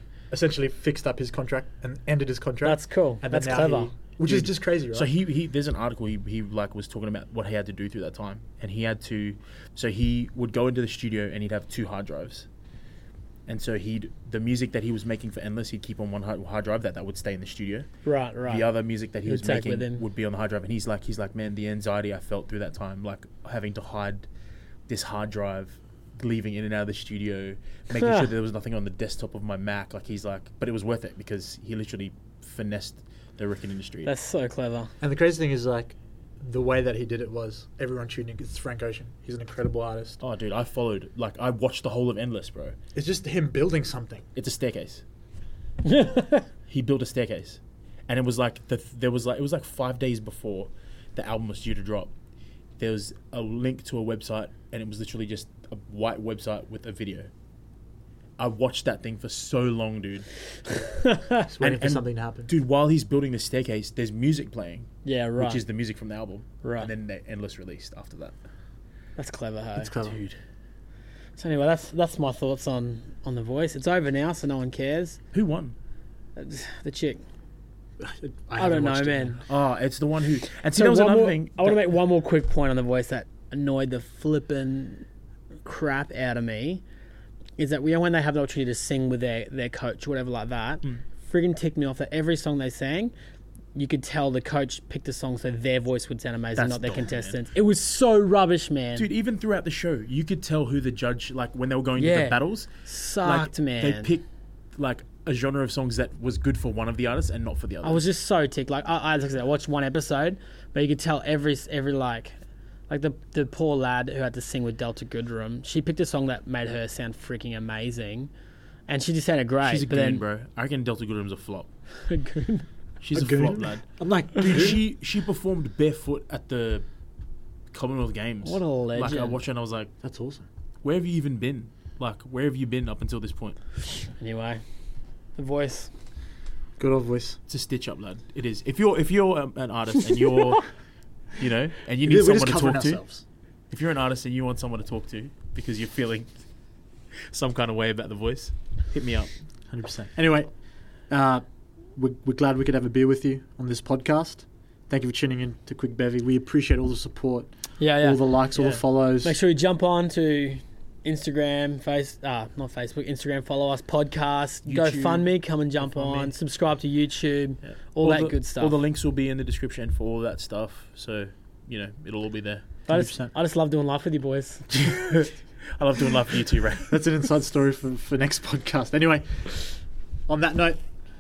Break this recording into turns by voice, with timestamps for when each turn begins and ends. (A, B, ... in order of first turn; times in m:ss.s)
0:00.3-0:05.1 A
0:02.6-0:03.9 B
0:04.2-0:12.5 C
0:13.5-0:17.9 C
0:18.0-0:18.7 B
0:18.4-0:24.3 C
0:19.3-0:20.0 B
0:24.9-0:34.1 C
0:27.9-0:28.3 B
0:34.0-0:34.9 B
0:35.0-0:40.2 A
0:40.2-0:42.8 C
0:43.0-0:44.2 A
0:44.4-0:45.0 C
0:45.8-0:46.5 B
0:46.7-0:52.1 C
0:52.8-0:57.3 C
0:58.4-1:00.3 C
1:01.0-1:01.5 B
1:01.5-1:02.5 A
1:01.6-1:08.4 C
1:05.0-1:05.6 B
1:06.6-1:06.9 B
1:09.2-1:09.9 B
1:09.8-1:10.2 A
1:09.9-1:10.4 C
1:11.4-1:15.2 B
1:15.3-1:15.8 C
1:16.4-1:17.2 B
1:18.0-1:19.4 A
1:18.6-1:19.4 B
1:19.5-1:21.8 C
1:20.7-1:25.1 B
1:25.6-1:26.8 B
1:27.6-1:33.1 B
1:33.8-1:39.1 B
1:36.6-1:37.4 C
1:39.0-1:42.7 C
1:42.0-1:44.1 B
1:43.2-1:44.2 C
1:44.8-1:48.0 C
1:47.8-1:52.4 B
1:52.9-1:58.3 B
1:58.9-2:00.2 B
1:59.6-2:01.7 C
2:02.1-2:02.7 B
2:03.0-2:06.9 C
2:03.1-2:04.8 A
2:07.7-2:09.9 C
2:08.4-2:09.4 B
2:10.0-2:10.5 A
2:10.8-2:13.6 C
2:14.2-2:14.6 B
2:15.4-2:15.9 B
2:16.8-2:17.4 A
2:17.5-2:20.7 C
2:21.4-2:23.0 C
2:22.0-2:23.2 A
2:23.7-2:26.3 C
2:27.3-2:29.3 C
2:29.7-2:30.5 A
2:31.1-2:31.4 A
2:32.0-2:39.4 A
2:37.8-2:38.2 B
2:38.6-2:38.8 C
2:39.2-2:48.8 B
2:44.7-2:45.2 C
2:44.8-2:45.2 A
2:45.8-2:46.3 A
2:47.6-2:52.7 C
2:52.9-2:54.7 B
2:52.9-2:53.3 A
2:54.7-2:57.0 C
2:56.9-2:59.7 A
3:00.3-3:00.8 A